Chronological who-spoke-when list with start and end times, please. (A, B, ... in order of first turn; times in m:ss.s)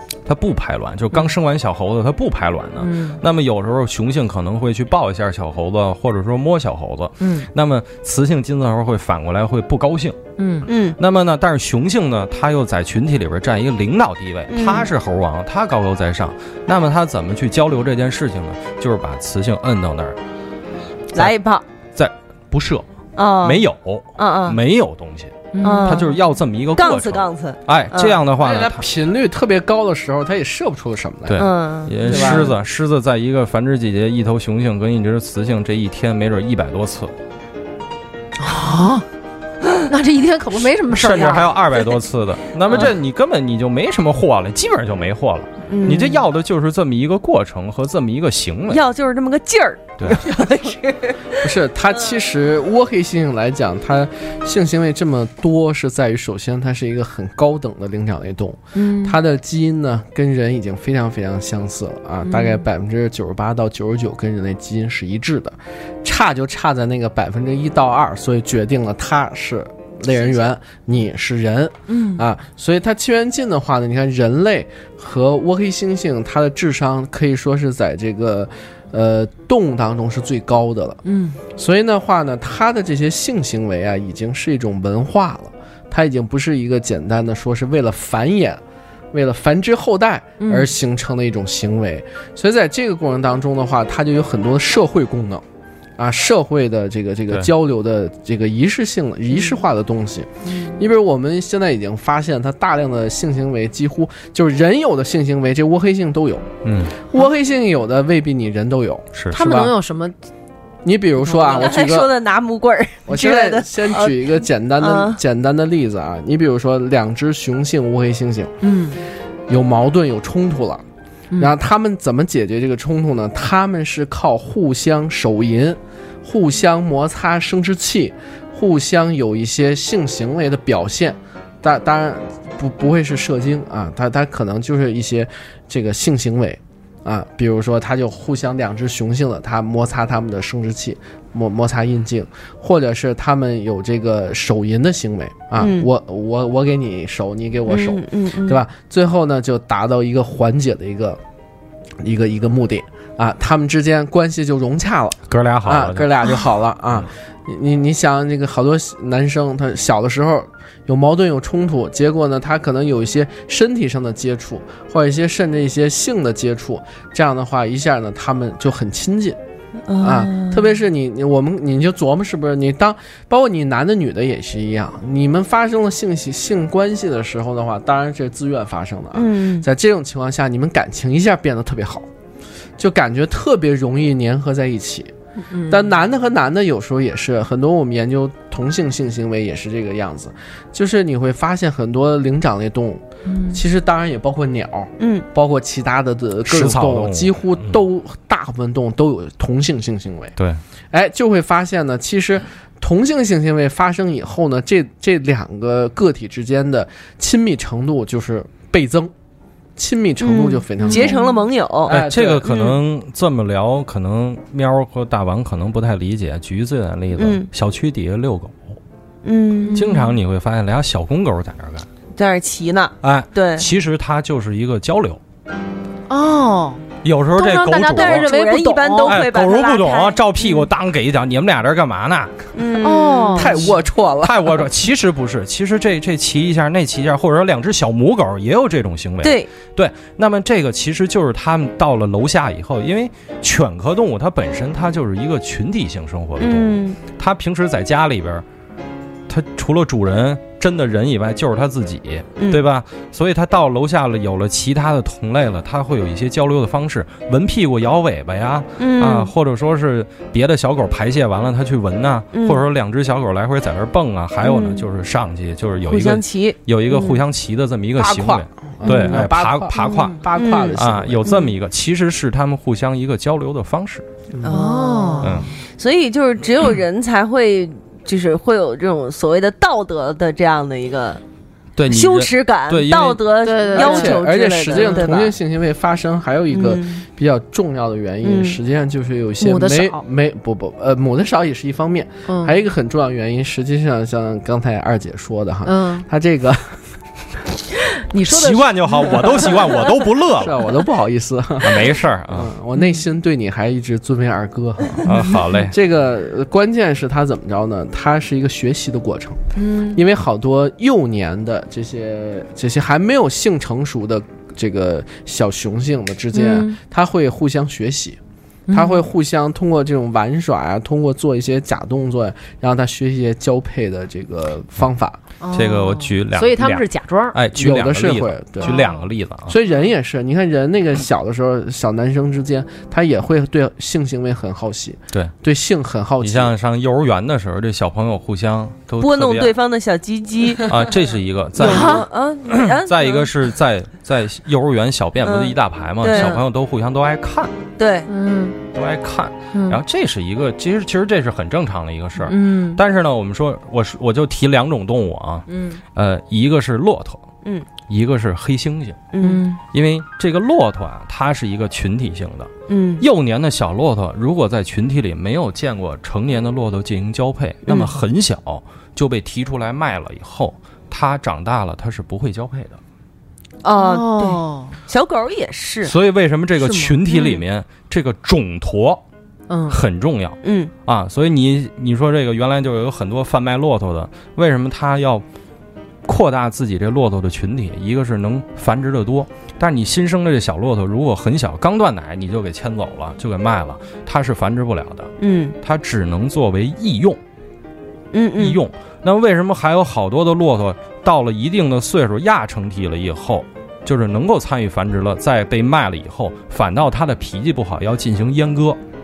0:00.2-0:10.2 A
0:02.8-0:03.2 B
0:07.2-0:07.5 B
0:10.4-0:10.7 B
0:10.7-0:11.0 C
0:11.0-0:20.2 A
0:14.5-0:14.9 C
0:21.1-0:21.6 C
0:21.9-0:22.8 A
0:23.2-0:23.6 C
0:23.4-0:28.8 A
0:24.2-0:24.6 C
0:25.5-0:26.0 B
0:25.6-0:26.2 C
0:26.7-0:28.2 C
0:28.4-0:31.4 D
0:31.3-0:37.1 A
0:31.4-0:32.4 C
0:32.0-0:32.5 D
0:38.4-0:39.0 B
0:39.9-0:41.5 B
0:40.9-0:48.8 A
0:42.7-0:42.9 C
0:45.7-0:46.2 C
0:48.7-0:51.5 C
0:50.0-0:50.2 A
0:51.4-1:21.0 D
0:58.7-0:59.1 B
1:02.2-1:02.6 B
1:11.9-1:12.2 B
1:21.0-1:21.4 B
1:21.5-1:35.4 D
1:30.4-1:30.7 B
1:36.0-1:46.5 D
1:39.3-1:39.6 B
1:40.4-1:40.8 B
1:46.6-1:47.0 A
1:47.1-1:49.7 D
1:49.3-1:50.1 B
1:50.8-1:52.1 D
1:51.3-1:51.6 B
1:51.4-1:55.2 C
1:53.1-1:58.5 D
1:58.6-1:59.0 B
1:59.5-2:00.8 D
2:01.4-2:31.2 D
2:25.6-2:25.9 C
2:27.7-2:28.6 C
2:32.0-2:49.4 D
2:35.3-2:36.1 A
2:49.9-2:50.8 C
2:50.0-3:02.1 D
2:59.1-2:59.6 C
3:02.8-3:05.1 D
3:05.5-3:05.9 B
3:05.7-3:20.3 D
3:13.2-3:13.6 B
3:15.0-3:15.2 C
3:16.4-3:17.8 A
3:20.9-3:29.1 D
3:29.8-3:31.2 D
3:30.2-3:32.8 C
3:30.8-3:31.4 B
3:31.8-3:32.5 D
3:31.8-3:38.8 A
3:37.2-3:37.5 C
3:39.2-3:39.8 C
3:39.6-3:40.2 B
3:39.7-3:41.9 A
3:42.2-3:43.7 C
3:43.0-3:45.2 A
3:46.1-3:49.2 B
3:47.0-3:48.3 A
3:47.9-3:50.7 C
3:49.0-3:52.3 A
3:52.6-3:53.7 C
3:52.8-3:53.6 B
3:53.3-3:54.6 D
3:54.2-4:08.4 A
3:59.2-3:59.5 C
4:06.4-4:07.0 C
4:09.3-4:30.2 A
4:12.4-4:12.6 C
4:18.8-4:19.3 C
4:22.3-4:22.6 C
4:24.4-4:24.9 C
4:25.8-4:27.2 C
4:28.0-4:31.3 D
4:28.8-4:29.2 C
4:29.7-4:30.2 B
4:30.3-4:31.5 C
4:30.8-4:34.0 A
4:34.3-4:34.6 D
4:34.4-4:41.2 C
4:34.5-4:35.4 B
4:35.2-4:35.5 A
4:41.8-4:43.2 A
4:41.9-4:45.3 C
4:43.4-4:44.2 B
4:43.7-4:56.7 D
4:44.7-4:45.1 B
4:46.5-4:47.0 C
4:48.2-4:48.6 C
4:49.4-4:50.0 B
4:52.3-4:52.6 B
4:55.6-4:56.1 B
4:58.1-4:59.8 B
4:58.3-5:00.7 A
5:00.4-5:18.2 D
5:01.6-5:02.5 A
5:02.8-5:03.0 B
5:05.0-5:05.7 A
5:09.5-5:10.0 B
5:16.3-5:16.8 B
5:18.7-5:19.0 B
5:18.7-5:25.2 D
5:25.4-5:27.4 B
5:25.5-5:29.6 A
5:27.5-5:28.8 D
5:28.6-5:29.0 B
5:29.5-5:36.5 D
5:36.2-5:39.5 A
5:39.0-5:40.8 C
5:40.6-5:47.5 A
5:41.6-5:43.3 C
5:41.6-5:42.0 B
5:45.2-5:46.4 C
5:47.8-5:48.1 C
5:48.1-5:48.6 B
5:48.7-5:57.2 A
5:49.5-5:49.8 B
5:52.2-5:52.8 B
5:55.5-5:55.8 B
5:57.8-5:59.0 A
5:59.1-5:59.4 C
5:59.2-5:59.6 B
5:59.7-6:12.8 A
6:02.7-6:03.0 C
6:07.7-6:08.0 C
6:13.6-6:15.9 C
6:13.8-6:14.8 B
6:15.8-6:19.0 A
6:16.6-6:17.3 B
6:17.1-6:17.4 C
6:19.5-6:19.8 B
6:19.7-6:25.2 A
6:20.4-6:20.7 C
6:26.0-6:37.2 A
6:35.2-6:35.6 C
6:38.1-6:38.6 C
6:38.4-6:48.8 A